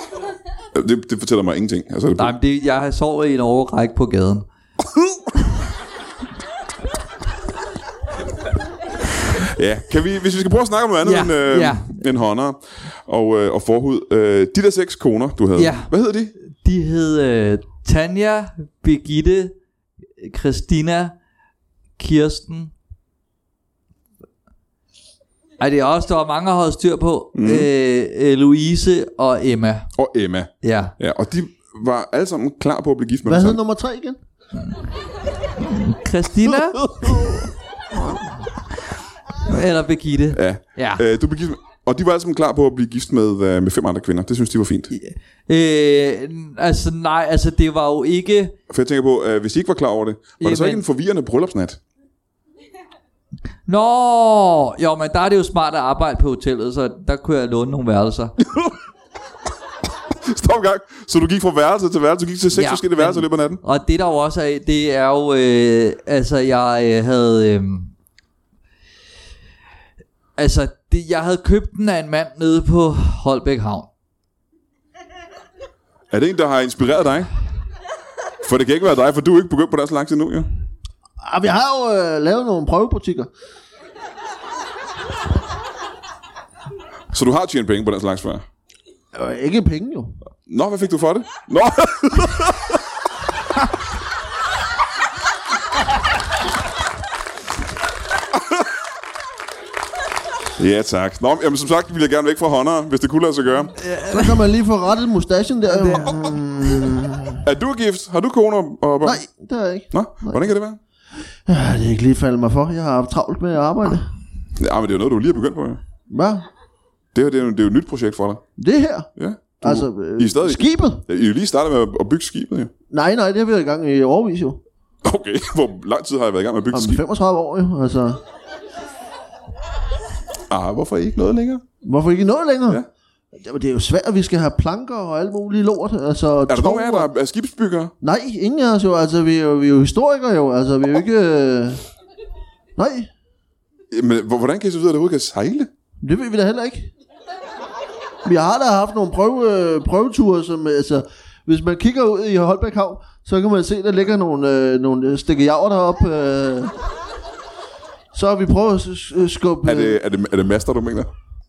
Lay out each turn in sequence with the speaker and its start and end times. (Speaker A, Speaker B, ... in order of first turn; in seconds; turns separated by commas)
Speaker A: 0.7-2.3, Speaker B: 2.2-4.5, Speaker A: 9.4-16.3, Speaker B: 11.0-12.0, Speaker B: 15.6-15.9, Speaker B: 16.4-19.5, Speaker B: 20.2-21.1, Speaker B: 22.0-22.7, Speaker B: 25.6-29.9, Speaker A: 27.3-27.7, Speaker A: 30.0-33.6, Speaker B: 30.6-30.9, Speaker C: 33.2-34.2, Speaker B: 35.6-37.3, Speaker A: 36.8-37.5, Speaker B: 39.5-41.0, Speaker A: 40.3-44.9, Speaker B: 44.9-48.5, Speaker A: 48.7-51.8, Speaker B: 50.4-50.8, Speaker B: 53.6-58.3, Speaker A: 58.4-58.7, Speaker A: 60.2-63.6, Speaker B: 62.5-67.9, Speaker B: 70.4-73.9, Speaker A: 76.1-77.3, Speaker A: 78.4-80.5, Speaker C: 81.2-83.3, Speaker A: 87.1-88.4, Speaker C: 89.1-90.2, Speaker A: 90.5-92.8, Speaker A: 98.3-98.7, Speaker A: 100.6-103.7, Speaker B: 103.8-104.5, Speaker C: 104.1-107.4, Speaker B: 105.7-106.3, Speaker A: 107.4-109.2, Speaker C: 109.0-110.5, Speaker A: 109.9-110.8, Speaker C: 111.5-114.1, Speaker A: 114.6-115.8, Speaker C: 116.1-116.5, Speaker A: 117.1-118.4, Speaker C: 118.6-119.1, Speaker A: 119.2-122.7, Speaker C: 119.6-121.0, Speaker C: 122.9-124.6, Speaker A: 125.0-127.0, Speaker C: 126.7-128.2, Speaker A: 130.5-131.6, Speaker C: 131.8-132.8, Speaker C: 133.3-137.1, Speaker A: 136.5-137.9, Speaker C: 138.0-141.8, Speaker C: 142.8-143.1, Speaker A: 143.9-145.7, Speaker C: 146.0-146.9, Speaker C: 148.2-156.7, Speaker C: 158.1-160.0, Speaker A: 159.6-161.1